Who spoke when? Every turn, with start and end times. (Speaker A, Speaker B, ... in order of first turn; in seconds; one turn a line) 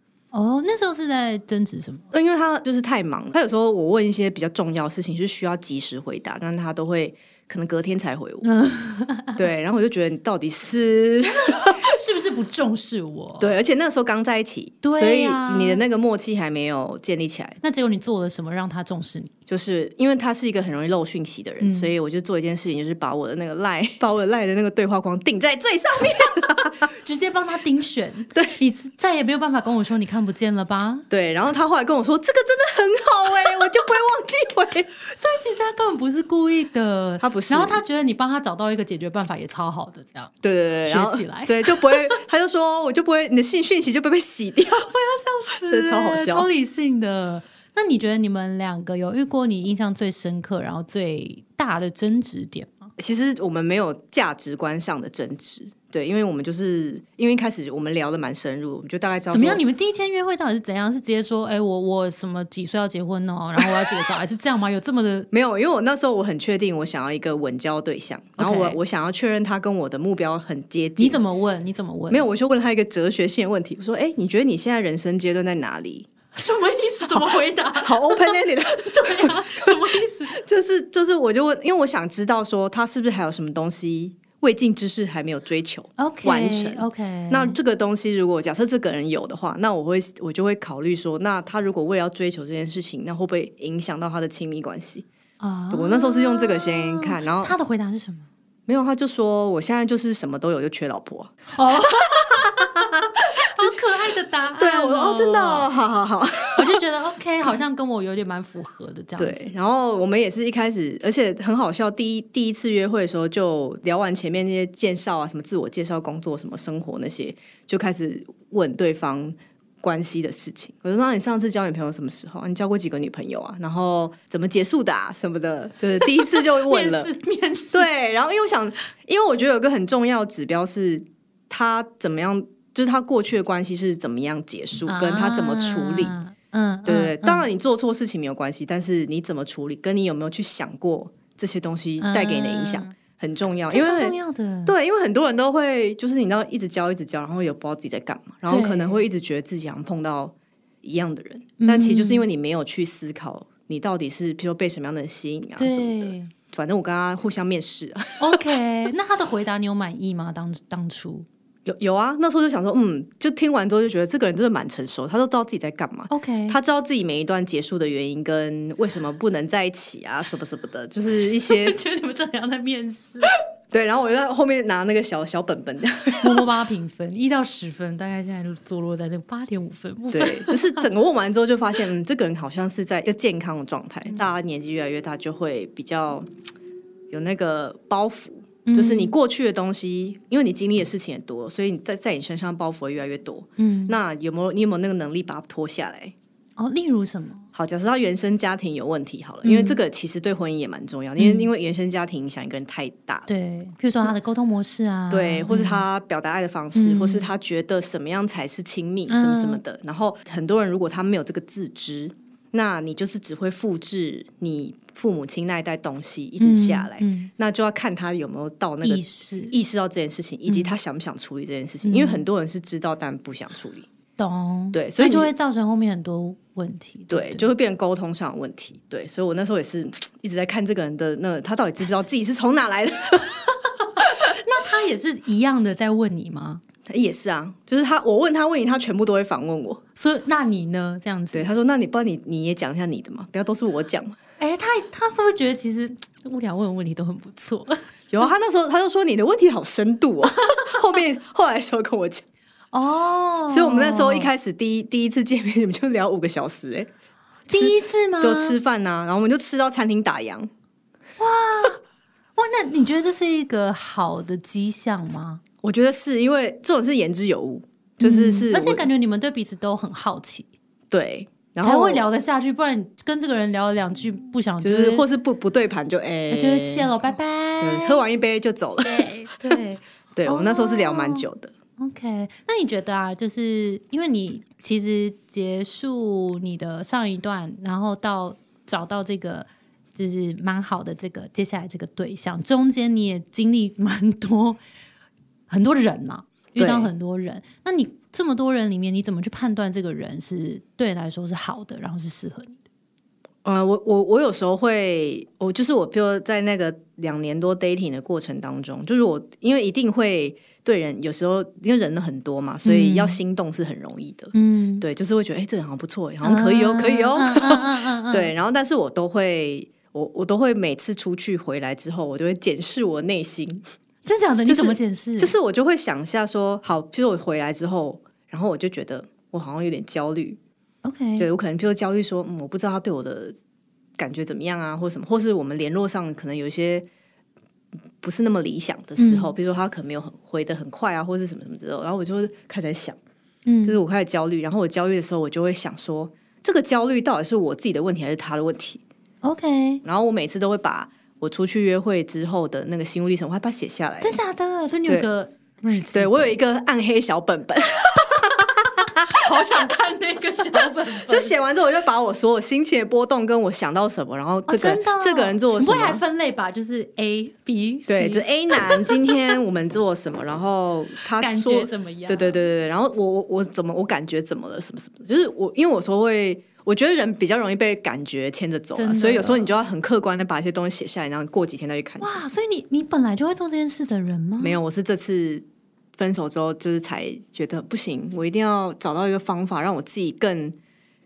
Speaker A: 0.3-2.1
Speaker B: 2.1-8.5
Speaker A: 8.4-9.4
Speaker B: 9.3-11.8
Speaker A: 11.5-13.6
Speaker B: 13.4-17.6
Speaker A: 14.8-15.8
Speaker A: 17.6-19.3
Speaker B: 19.5-26.9
Speaker A: 21.6-21.9
Speaker A: 26.8-31.1
Speaker B: 31.1-34.9
Speaker A: 35.0-40.3
Speaker B: 37.2-37.8
Speaker B: 40.4-44.9
Speaker A: 40.8-42.2
Speaker A: 44.8-52.9
Speaker B: 45.6-46.5
Speaker B: 53.0-59.6
Speaker A: 59.3-65.3
Speaker B: 65.3-71.2
Speaker A: 68.4-68.8
Speaker A: 71.0-72.3
Speaker B: 72.1-76.1
Speaker A: 76.3-80.4
Speaker B: 77.1-79.8
Speaker B: 80.3-95.0
Speaker A: 86.0-87.6
Speaker A: 95.4-98.3
Speaker B: 95.7-97.5
Speaker B: 98.7-102.7
Speaker A: 101.5-105.7
Speaker B: 103.5-103.8
Speaker B: 104.6-106.8
Speaker A: 106.5-109.5
Speaker B: 109.2-127.1
Speaker A: 126.0-127.9
Speaker B: 127.7-136.1
Speaker A: 134.8-137.4
Speaker B: 136.8-144.1
Speaker A: 142.0-142.9
Speaker A: 143.7-144.7
Speaker B: 144.7-158.4
Speaker A: 148.5-149.0
Speaker A: 151.6-152.2
Speaker A: 155.6-156.3
Speaker A: 158.2-161.2
Speaker B: 161.7-171.8
Speaker A: 166.1-166.6
Speaker A: 171.2-173.3
Speaker B: 173.7-176.4
Speaker A: 176.2-180.9
Speaker B: 180.1-186.3
Speaker B: 187.1-196.1
Speaker A: 188.6-189.1
Speaker A: 193.6-194.0
Speaker A: 196.6-197.4
Speaker B: 197.5-203.3
Speaker A: 199.4-199.8
Speaker A: 201.2-201.5
Speaker A: 203.3-205.8
Speaker B: 205.1-223.9
Speaker A: 206.7-207.3
Speaker A: 209.1-209.6
Speaker A: 216.4-217.3
Speaker A: 218.8-219.6
Speaker A: 220.5-220.7
Speaker A: 221.8-222.2
Speaker A: 224.2-227.5
Speaker B: 224.7-225.3
Speaker B: 227.1-234.0
Speaker A: 234.0-236.6
Speaker B: 236.9-239.8
Speaker A: 240.0-241.5
Speaker B: 241.3-244.2
Speaker A: 244.4-247.8
Speaker B: 248.1-252.2
Speaker A: 252.7-254.3
Speaker B: 253.5-256.9
Speaker B: 257.5-260.5
Speaker A: 257.5-258.6
Speaker A: 261.2-261.8
Speaker A: 262.4-265.4
Speaker B: 265.6-268.9
Speaker A: 268.0-270.5
Speaker B: 270.9-272.0
Speaker A: 271.6-275.1
Speaker B: 274.6-276.9
Speaker A: 276.3-278.0
Speaker B: 277.6-279.6
Speaker A: 278.8-281.2
Speaker B: 280.1-281.5
Speaker A: 281.8-294.6
Speaker A: 295.5-302.6
Speaker B: 296.6-296.9
Speaker B: 303.4-323.6
Speaker A: 312.6-313.2
Speaker A: 314.3-314.9
Speaker A: 316.2-318.3
Speaker A: 324.0-325.3
Speaker B: 324.4-330.4
Speaker A: 330.8-331.3
Speaker B: 331.2-333.4
Speaker B: 334.0-336.9
Speaker B: 338.0-343.0
Speaker A: 339.0-339.3
Speaker A: 343.4-343.8
Speaker B: 343.6-348.8
Speaker A: 349.2-349.8
Speaker B: 349.8-354.2
Speaker A: 354.0-356.3
Speaker B: 355.9-359.7
Speaker A: 358.0-358.4
Speaker A: 359.0-361.4
Speaker B: 361.0-366.0
Speaker A: 364.5-369.1
Speaker B: 367.9-382.2
Speaker A: 371.2-372.4
Speaker A: 378.7-379.5
Speaker A: 382.0-384.6
Speaker B: 384.4-385.4
Speaker B: 386.0-390.6